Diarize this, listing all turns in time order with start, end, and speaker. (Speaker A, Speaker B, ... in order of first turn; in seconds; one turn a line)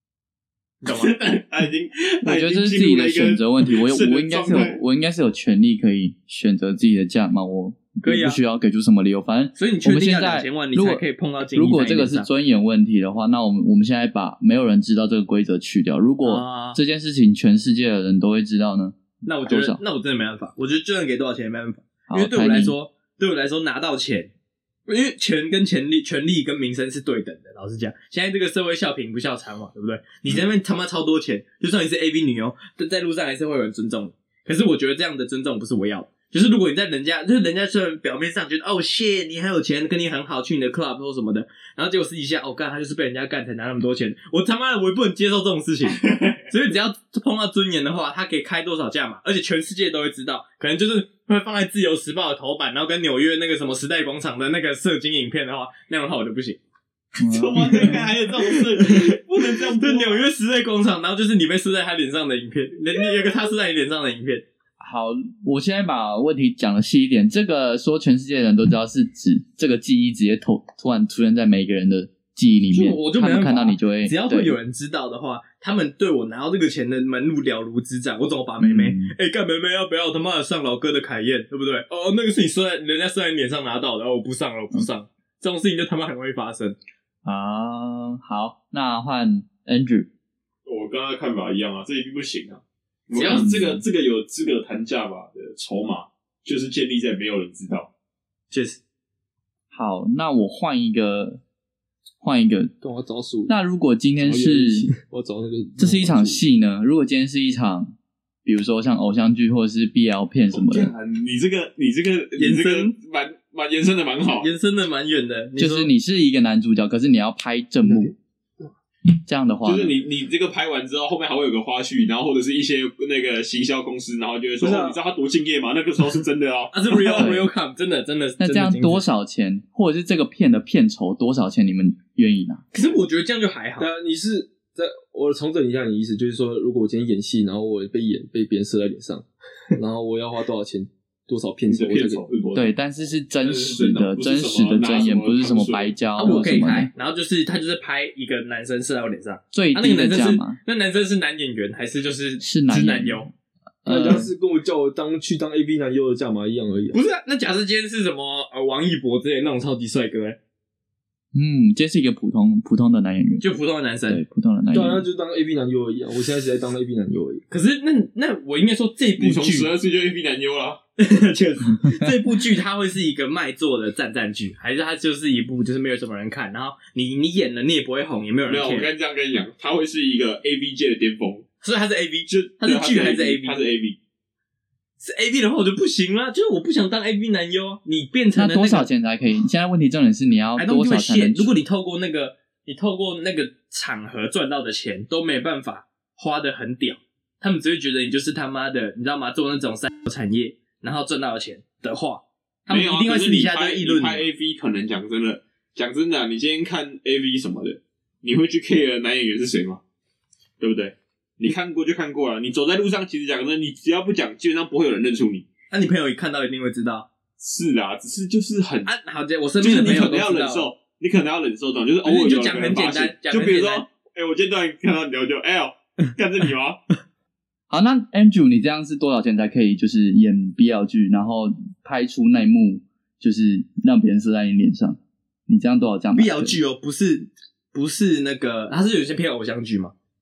Speaker A: 0.8-1.2
Speaker B: 0.9-4.8
Speaker C: 2.2-19.8
Speaker A: 8.0-8.4
Speaker A: 9.6-12.3
Speaker A: 16.2-16.8
Speaker A: 19.2-24.3
Speaker C: 22.1-22.8
Speaker A: 24.9-56.6
Speaker B: 46.0-46.5
Speaker C: 57.2-58.1
Speaker B: 57.2-60.3
Speaker A: 57.6-64.4
Speaker C: 64.8-74.6
Speaker A: 72.7-86.8
Speaker C: 78.6-79.1
Speaker C: 87.2-90.1
Speaker B: 90.7-97.9
Speaker A: 93.1-93.5
Speaker C: 93.3-93.8
Speaker A: 98.5-98.8
Speaker C: 99.7-101.4
Speaker C: 102.2-102.7
Speaker D: 102.8-103.5
Speaker C: 103.5-104.9
Speaker D: 104.2-106.4
Speaker C: 105.8-107.9
Speaker C: 108.5-110.9
Speaker B: 110.5-114.5
Speaker A: 112.4-113.0
Speaker A: 114.4-115.9
Speaker C: 115.6-118.1
Speaker C: 119.3-120.0
Speaker B: 119.7-127.3
Speaker A: 124.6-125.0
Speaker A: 126.7-129.1
Speaker C: 127.2-127.5
Speaker C: 128.4-132.6
Speaker A: 132.7-133.9
Speaker D: 133.8-142.2
Speaker B: 141.7-142.7
Speaker C: 142.5-146.9
Speaker B: 143.4-146.4
Speaker A: 146.2-153.3
Speaker C: 149.5-150.6
Speaker C: 152.4-153.3
Speaker C: 153.8-154.3
Speaker D: 153.9-157.0
Speaker A: 156.9-160.4
Speaker C: 161.3-163.4
Speaker A: 163.4-164.2
Speaker C: 164.1-165.1
Speaker D: 164.7-167.4
Speaker A: 167.5-169.7
Speaker B: 169.2-170.8
Speaker A: 171.0-178.9
Speaker C: 171.8-172.1
Speaker B: 178.5-181.5
Speaker A: 181.6-183.7
Speaker B: 182.3-184.0
Speaker A: 185.0-188.9
Speaker C: 188.3-191.5
Speaker A: 190.6-204.3
Speaker B: 202.7-209.8
Speaker B: 210.6-215.5
Speaker A: 215.7-217.1
Speaker B: 217.4-218.9
Speaker A: 218.8-220.7
Speaker B: 219.6-226.8
Speaker A: 222.0-223.8
Speaker C: 227.7-236.6
Speaker A: 236.2-239.9